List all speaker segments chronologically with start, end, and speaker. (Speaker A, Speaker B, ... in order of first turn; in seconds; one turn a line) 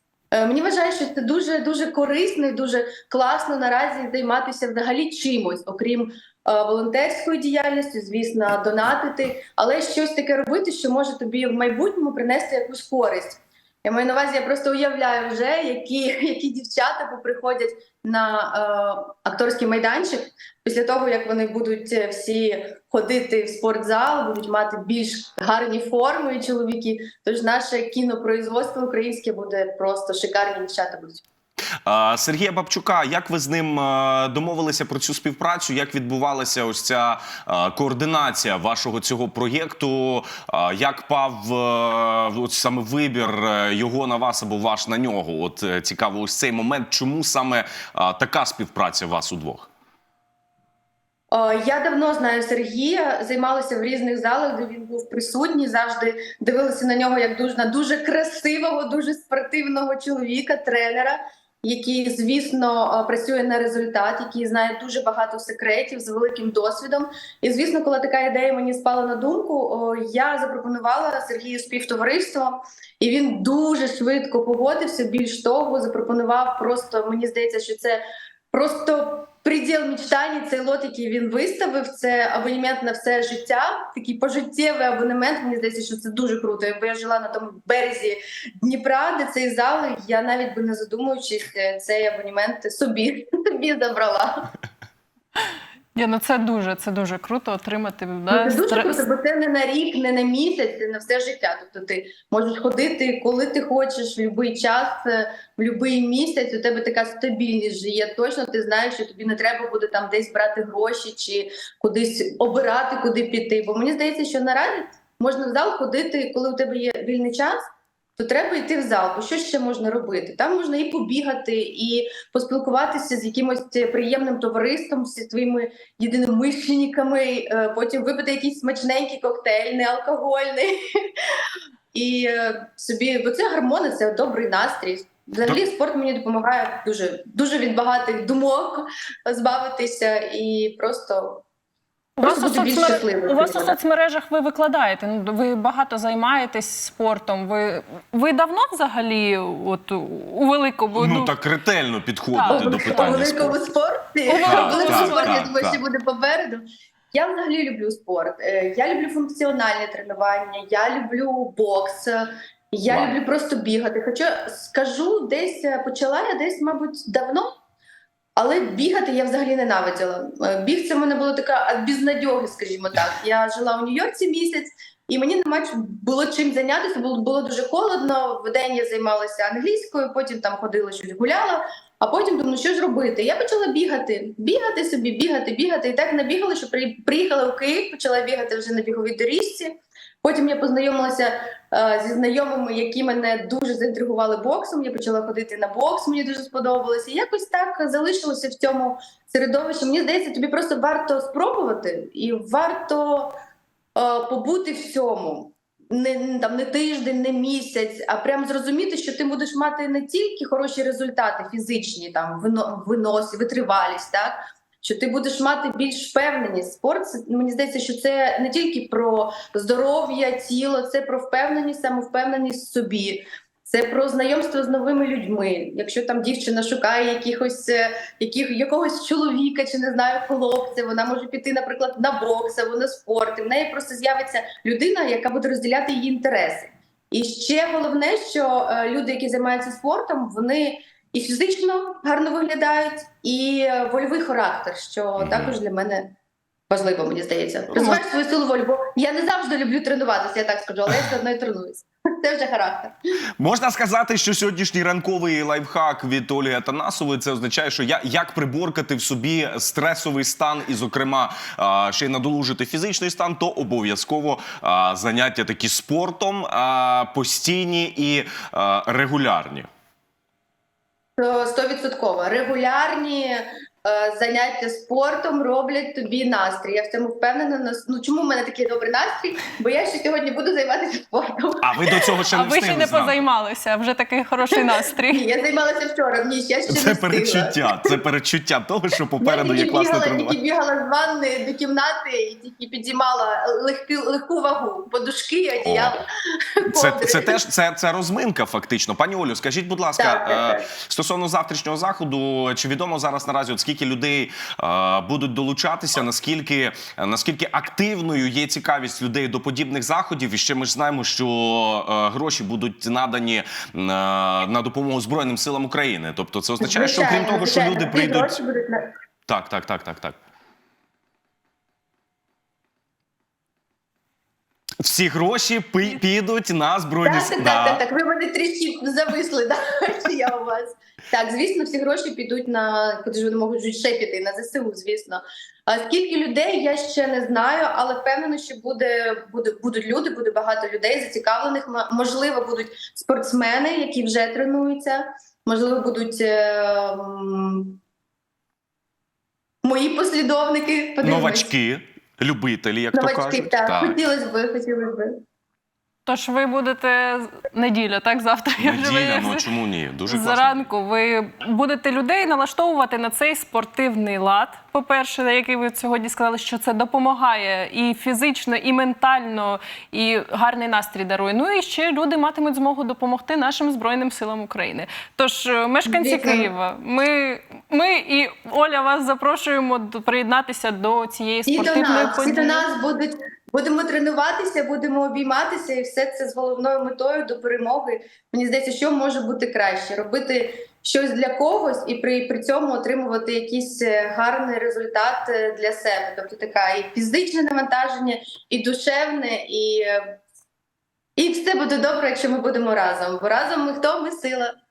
Speaker A: 0.3-31.2
Speaker B: 31.9-49.7
Speaker A: 51.3-94.5
Speaker C: 96.0-99.0
Speaker A: 98.3-117.6
Speaker A: 118.2-130.8
Speaker A: 131.9-141.4
Speaker C: 142.2-151.3
Speaker A: 142.2-143.8
Speaker B: 150.9-153.6
Speaker C: 152.3-153.1
Speaker A: 152.5-167.6
Speaker C: 154.3-155.4
Speaker B: 154.4-155.8
Speaker A: 168.4-203.3
Speaker A: 203.9-246.1
Speaker B: 245.2-245.6
Speaker A: 246.7-252.9
Speaker B: 247.7-248.0
Speaker B: 253.4-269.7
Speaker A: 271.2-281.8
Speaker B: 281.6-283.2
Speaker C: 282.3-285.2
Speaker A: 284.6-287.9
Speaker B: 286.7-290.4
Speaker A: 289.2-296.0
Speaker B: 295.6-296.0
Speaker A: 296.6-297.4
Speaker B: 296.7-318.4
Speaker A: 300.0-300.7
Speaker A: 316.6-318.9
Speaker B: 319.3-320.2
Speaker B: 324.8-327.8
Speaker A: 327.0-347.8
Speaker A: 349.6-351.5
Speaker B: 351.0-354.0
Speaker A: 352.9-355.2
Speaker C: 356.1-359.5
Speaker B: 358.6-360.7
Speaker C: 360.1-382.7
Speaker A: 375.9-376.5
Speaker A: 381.5-400.2
Speaker A: 401.2-404.6